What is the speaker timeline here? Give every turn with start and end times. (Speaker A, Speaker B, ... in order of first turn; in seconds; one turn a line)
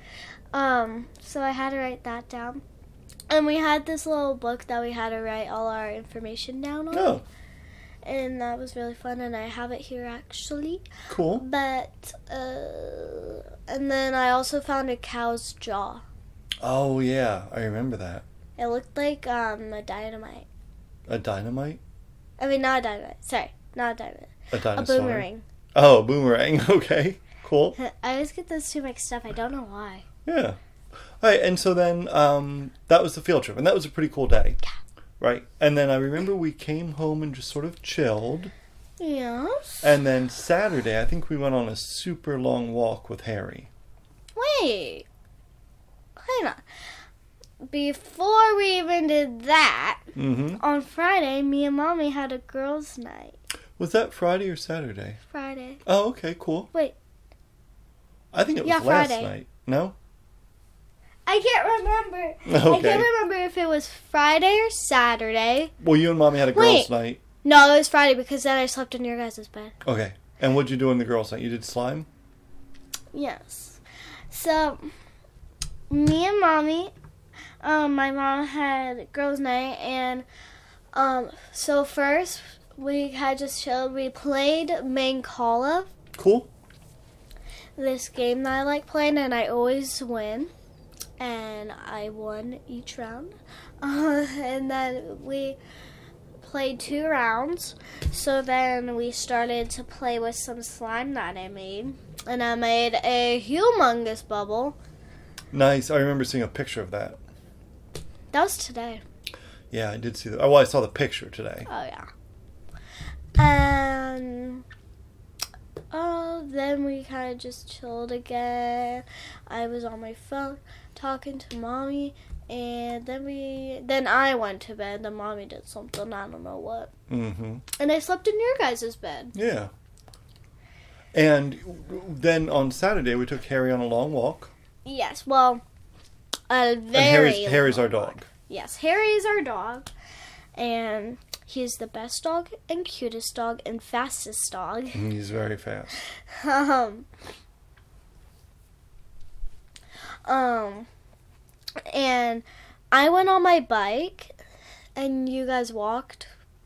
Speaker A: 0.5-2.6
Speaker A: 3.3-7.2
Speaker B: 6.9-7.2
Speaker A: 8.0-16.0
Speaker B: 11.1-11.4
Speaker B: 16.6-18.2
Speaker A: 18.6-20.5
Speaker B: 21.1-21.8
Speaker A: 22.4-25.4
Speaker B: 24.5-27.8
Speaker A: 27.8-30.1
Speaker B: 30.3-30.6
Speaker B: 31.2-34.6
Speaker B: 35.2-38.5
Speaker A: 39.0-39.9
Speaker B: 39.8-43.7
Speaker A: 44.4-45.1
Speaker A: 46.2-46.6
Speaker A: 47.7-50.1
Speaker B: 50.2-50.6
Speaker A: 50.6-53.4
Speaker B: 53.8-55.2
Speaker A: 55.3-55.8
Speaker B: 55.9-56.7
Speaker B: 58.3-60.0
Speaker A: 58.6-59.3
Speaker A: 61.3-65.7
Speaker B: 62.5-63.1
Speaker B: 65.8-67.2
Speaker A: 66.5-66.9
Speaker A: 67.4-69.8
Speaker B: 69.8-72.1
Speaker A: 73.1-74.9
Speaker A: 75.9-76.9
Speaker A: 77.6-80.3
Speaker A: 80.9-85.9
Speaker B: 86.2-86.5
Speaker A: 87.8-90.5
Speaker A: 91.2-95.6
Speaker A: 96.4-104.8
Speaker B: 105.5-107.2
Speaker A: 108.3-109.0
Speaker B: 109.7-111.7
Speaker A: 111.7-112.1
Speaker A: 113.4-114.6
Speaker A: 115.9-126.9
Speaker B: 127.1-127.6
Speaker A: 127.8-129.3
Speaker B: 129.3-129.7
Speaker B: 131.1-134.5
Speaker A: 134.8-135.6
Speaker A: 136.5-139.9
Speaker B: 136.9-138.3
Speaker A: 140.6-145.0
Speaker B: 144.9-146.0
Speaker A: 146.3-147.1
Speaker A: 150.3-150.9
Speaker A: 151.9-154.4
Speaker A: 155.0-156.3